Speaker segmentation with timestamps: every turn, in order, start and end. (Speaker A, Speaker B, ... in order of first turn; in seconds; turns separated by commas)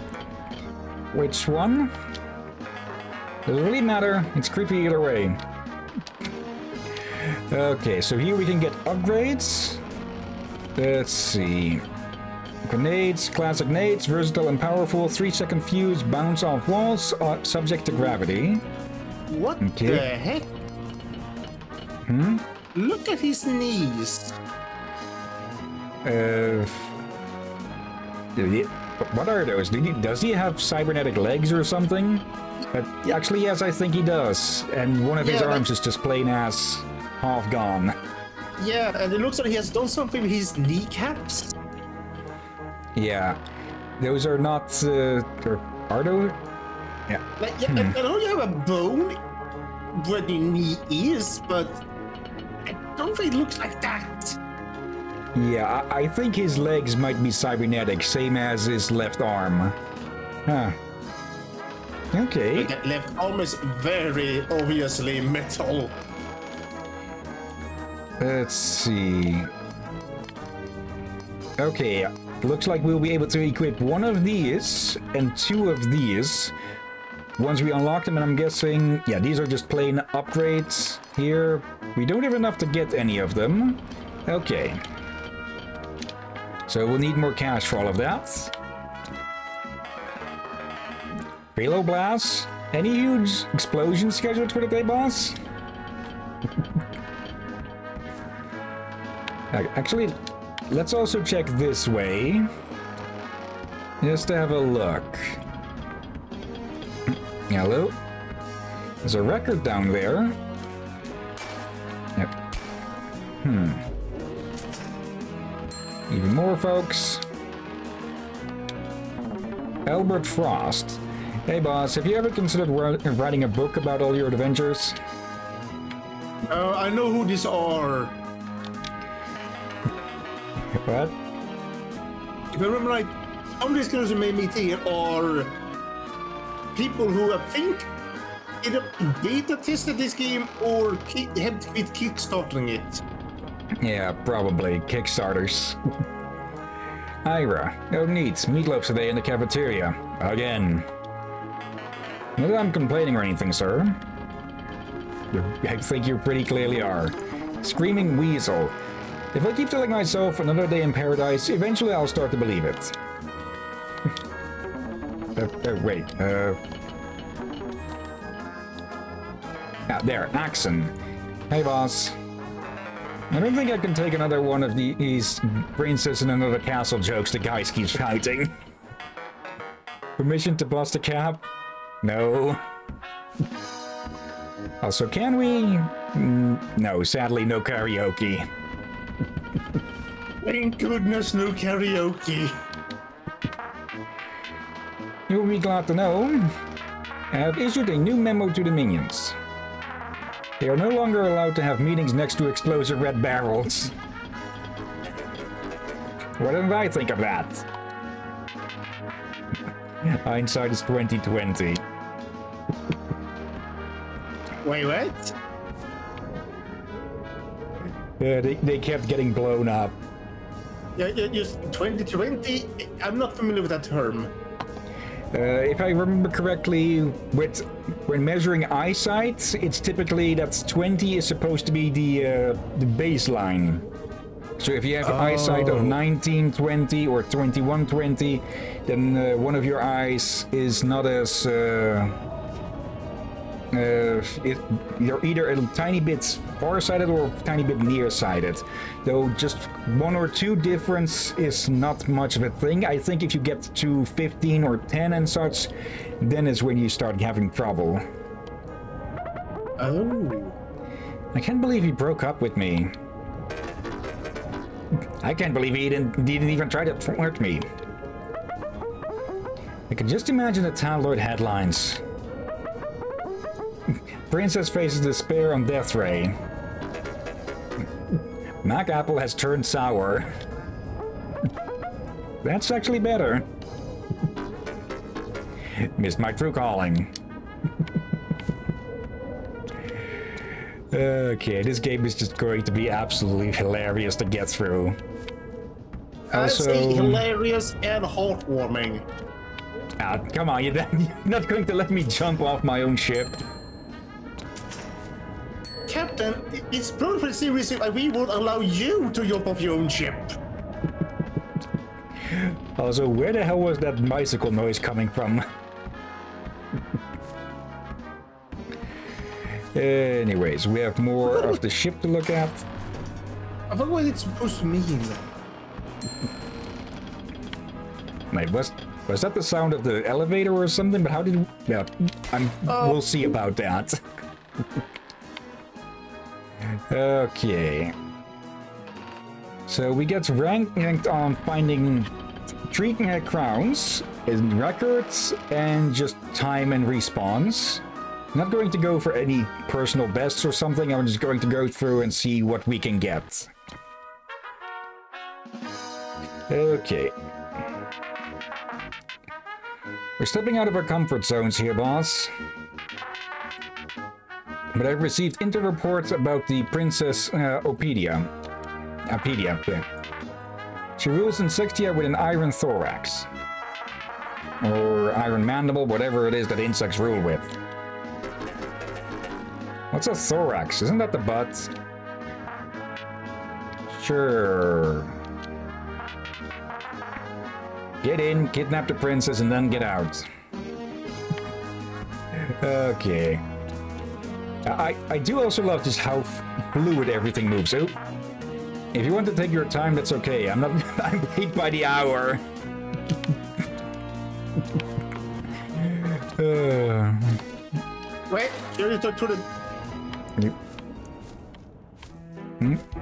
Speaker A: 1.1-1.9, Speaker A: 3.5-5.4, Speaker A: 7.2-9.8, Speaker A: 10.8-11.8, Speaker A: 12.7-18.6, Speaker B: 19.3-20.5, Speaker A: 19.6-20.1, Speaker A: 22.1-22.4, Speaker B: 22.7-24.4, Speaker A: 26.0-26.9, Speaker A: 28.4-38.0, Speaker B: 35.2-35.7, Speaker B: 38.6-41.6, Speaker A: 43.0-43.4, Speaker A: 44.0-46.4, Speaker A: 47.1-48.0, Speaker B: 47.4-49.2, Speaker B: 49.9-51.8, Speaker B: 52.7-54.4, Speaker A: 55.4-59.8, Speaker A: 60.5-60.8, Speaker A: 62.1-62.7, Speaker B: 62.5-66.0, Speaker A: 68.2-69.5, Speaker A: 71.6-76.5, Speaker A: 77.4-84.8, Speaker A: 86.7-88.5, Speaker A: 91.5-95.4, Speaker A: 99.5-100.2, Speaker A: 100.7-102.5, Speaker A: 104.0-105.4, Speaker A: 107.5-108.0, Speaker A: 109.0-110.4, Speaker A: 113.4-113.9, Speaker A: 116.1-117.2, Speaker A: 119.9-125.0, Speaker B: 126.5-128.2, Speaker A: 130.8-131.2, Speaker B: 132.5-135.6, Speaker B: 136.7-137.9, Speaker B: 138.6-143.0, Speaker A: 143.8-145.8, Speaker A: 147.2-150.9, Speaker A: 152.4-154.0, Speaker A: 155.3-158.7, Speaker A: 159.3-162.9, Speaker A: 165.4-166.6, Speaker A: 169.9-170.9, Speaker A: 171.5-172.2, Speaker A: 173.3-178.6, Speaker A: 180.2-181.5, Speaker A: 182.0-182.6, Speaker A: 184.8-188.5, Speaker B: 190.4-192.6, Speaker A: 195.3-196.5, Speaker A: 197.3-199.4, Speaker A: 200.6-203.9, Speaker A: 206.4-207.7, Speaker A: 210.0-211.8, Speaker B: 214.6-215.4, Speaker A: 218.2-220.0, Speaker B: 221.0-224.3, Speaker A: 225.3-233.9, Speaker A: 234.6-242.2, Speaker B: 235.0-236.0, Speaker A: 243.7-258.0, Speaker B: 259.8-260.6, Speaker A: 261.3-262.9, Speaker A: 265.2-267.7, Speaker A: 269.9-272.0, Speaker A: 274.3-276.4, Speaker A: 278.6-280.3, Speaker A: 282.4-283.5, Speaker A: 285.8-287.1, Speaker A: 290.9-295.0, Speaker B: 296.3-299.1, Speaker A: 296.3-297.3, Speaker A: 300.0-303.4, Speaker B: 305.9-310.3, Speaker A: 312.3-315.5, Speaker A: 319.7-322.7, Speaker B: 321.3-321.6, Speaker B: 323.7-325.2, Speaker A: 328.3-334.0, Speaker B: 332.7-333.3, Speaker A: 336.9-337.9, Speaker A: 339.7-342.1, Speaker A: 342.7-347.8, Speaker A: 348.3-353.5, Speaker A: 356.5-357.1, Speaker A: 360.2-362.3, Speaker A: 364.8-368.3, Speaker A: 369.1-369.9, Speaker A: 371.0-373.3, Speaker A: 374.6-377.5, Speaker A: 379.9-381.7, Speaker A: 383.9-385.2, Speaker A: 388.0-390.3, Speaker A: 392.3-393.4, Speaker A: 394.6-398.0, Speaker A: 398.9-402.4, Speaker A: 405.8-407.4, Speaker B: 408.3-409.5